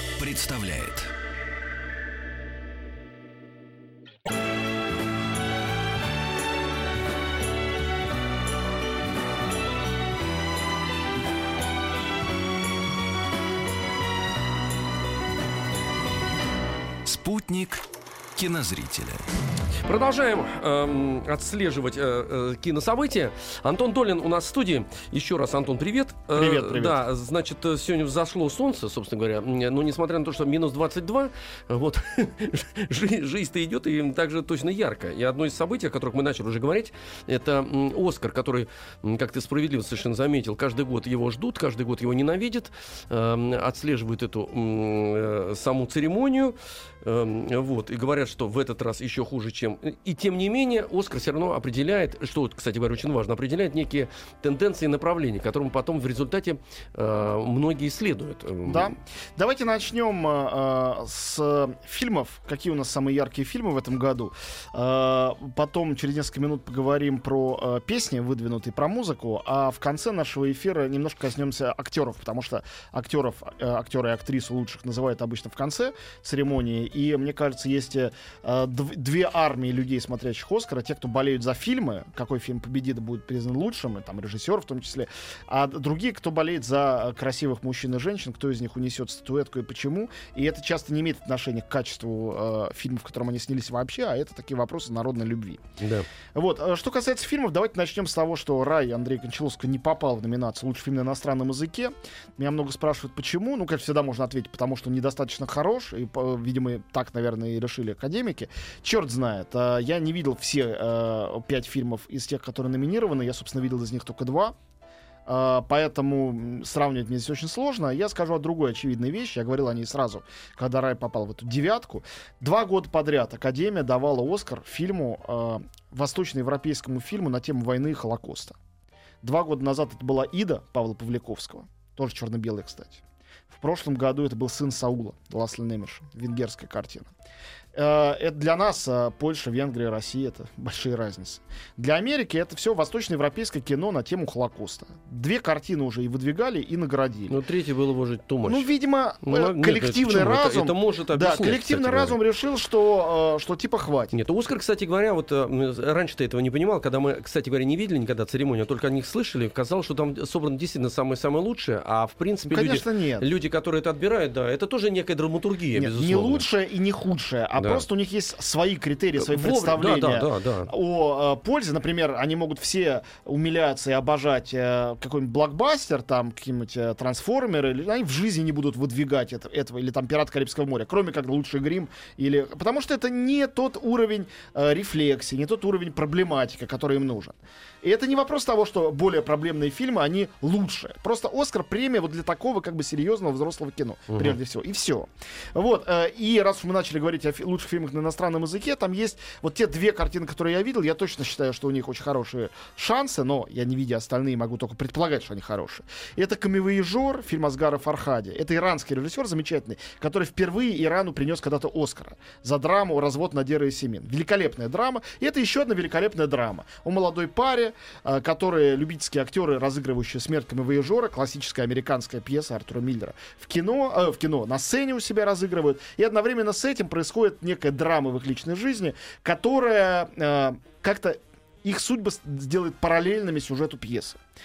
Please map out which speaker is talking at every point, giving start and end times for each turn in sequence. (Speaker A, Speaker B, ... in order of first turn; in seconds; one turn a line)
Speaker A: 0.2-1.1
Speaker A: 17.0-19.3
Speaker B: 19.8-58.9
Speaker C: 26.3-27.0
Speaker C: 58.6-95.6
Speaker B: 95.8-96.0
Speaker C: 96.3-114.5
Speaker C: 115.3-128.6
Speaker C: 129.2-137.1
Speaker C: 137.7-147.4
Speaker B: 147.3-148.7
Speaker C: 148.4-154.1
Speaker B: 149.2-152.2
Speaker B: 154.1-166.4
Speaker C: 162.4-163.3
Speaker C: 165.7-234.2
Speaker B: 167.6-167.8
Speaker B: 169.2-170.7
Speaker B: 194.1-194.4